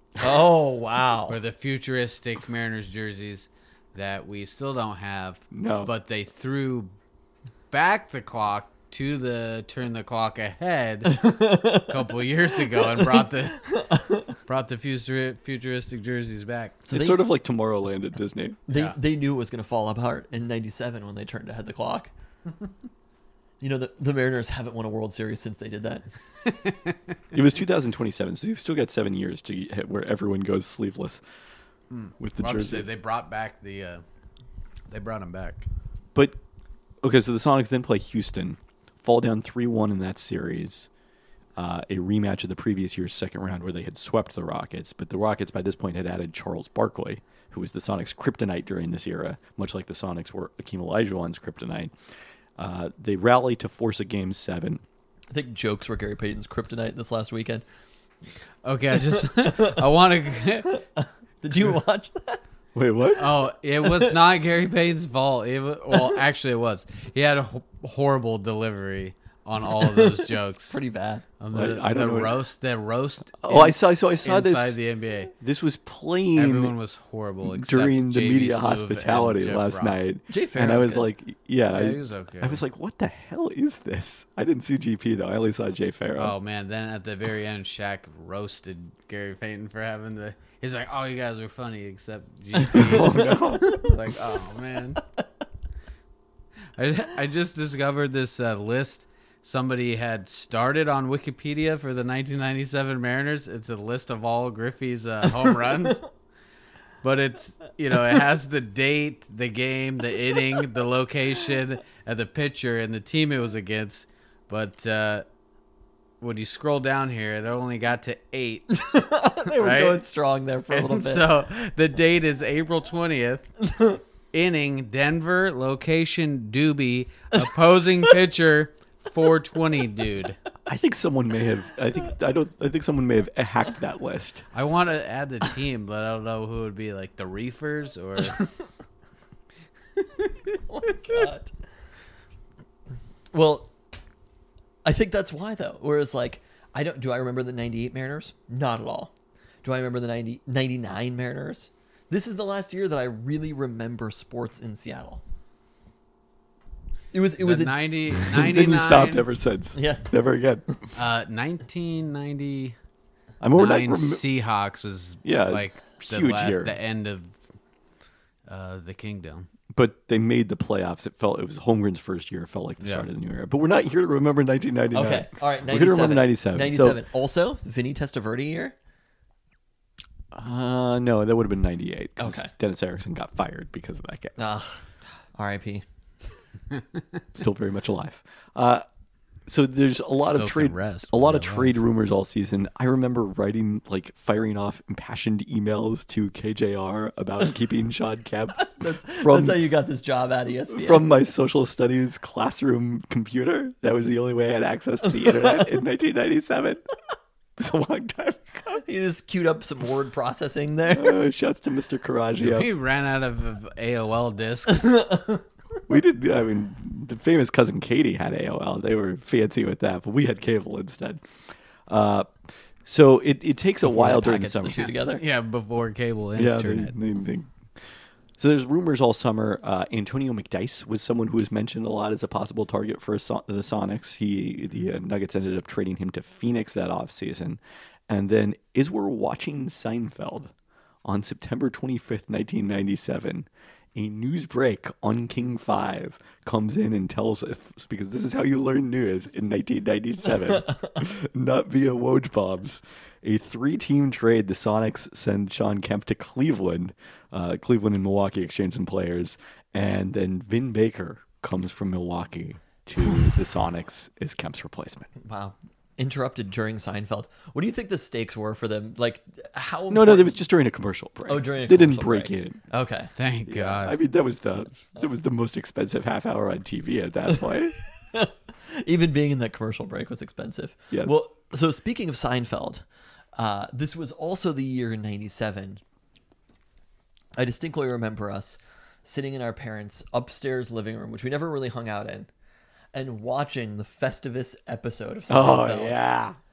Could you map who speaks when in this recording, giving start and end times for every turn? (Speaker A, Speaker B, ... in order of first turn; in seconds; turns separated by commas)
Speaker A: 0.2-1.4, Speaker B: 1.3-6.9, Speaker C: 5.5-5.9, Speaker B: 7.7-16.8, Speaker A: 11.1-12.1, Speaker A: 12.6-14.3, Speaker A: 16.8-17.3, Speaker C: 16.9-18.6, Speaker A: 18.7-22.1, Speaker B: 18.7-19.0, Speaker A: 23.6-26.1, Speaker B: 26.5-26.9, Speaker C: 27.3-31.2, Speaker B: 31.9-34.0, Speaker C: 32.2-32.9, Speaker B: 34.9-35.7, Speaker C: 37.0-40.9, Speaker C: 41.6-51.9, Speaker C: 52.6-54.8, Speaker A: 55.3-57.6, Speaker B: 58.6-60.8, Speaker A: 59.1-59.8, Speaker A: 61.0-62.4, Speaker C: 62.8-63.3, Speaker B: 63.2-70.8, Speaker A: 63.8-64.1, Speaker A: 69.8-71.2, Speaker B: 71.4-75.3, Speaker C: 71.5-72.4, Speaker C: 73.4-74.8, Speaker C: 75.4-76.8, Speaker B: 76.3-80.1, Speaker C: 77.4-86.4, Speaker A: 80.3-81.1, Speaker B: 81.7-82.6, Speaker B: 86.2-95.0, Speaker C: 92.7-93.8, Speaker B: 96.8-106.0, Speaker B: 107.0-115.2, Speaker B: 116.2-118.8, Speaker A: 118.7-121.3, Speaker B: 119.5-120.0, Speaker B: 120.7-123.7, Speaker B: 124.3-130.4, Speaker C: 130.7-134.4, Speaker B: 134.5-138.4, Speaker A: 140.5-141.5, Speaker A: 143.3-143.7, Speaker A: 144.8-149.1, Speaker A: 149.6-155.2, Speaker A: 157.1-157.8, Speaker B: 157.4-159.3, Speaker C: 158.2-160.6, Speaker A: 159.8-160.1, Speaker B: 160.9-162.8, Speaker C: 163.4-164.2, Speaker B: 163.6-167.4, Speaker C: 165.2-166.8, Speaker B: 168.5-169.5, Speaker C: 169.7-177.0, Speaker B: 172.8-173.1, Speaker A: 174.9-178.8, Speaker C: 180.3-184.4, Speaker A: 182.2-182.5, Speaker A: 184.4-185.8, Speaker C: 187.4-188.8, Speaker C: 189.5-199.6, Speaker B: 190.2-191.8, Speaker A: 198.6-201.1, Speaker C: 200.7-206.8, Speaker C: 207.6-208.8, Speaker A: 208.8-211.2, Speaker C: 210.9-212.7, Speaker B: 212.4-215.1, Speaker A: 214.9-215.4, Speaker C: 215.9-221.2, Speaker C: 221.9-224.9, Speaker A: 223.8-225.2, Speaker B: 224.8-226.9, Speaker C: 226.4-227.5, Speaker C: 228.4-240.5, Speaker C: 241.1-265.1, Speaker A: 265.2-270.4, Speaker C: 269.9-272.6, Speaker A: 271.3-273.1, Speaker B: 273.2-274.0, Speaker C: 273.5-277.8, Speaker A: 278.1-282.8, Speaker C: 280.9-281.2, Speaker A: 283.4-285.8, Speaker A: 287.4-292.3, Speaker A: 292.9-296.0, Speaker C: 295.3-296.4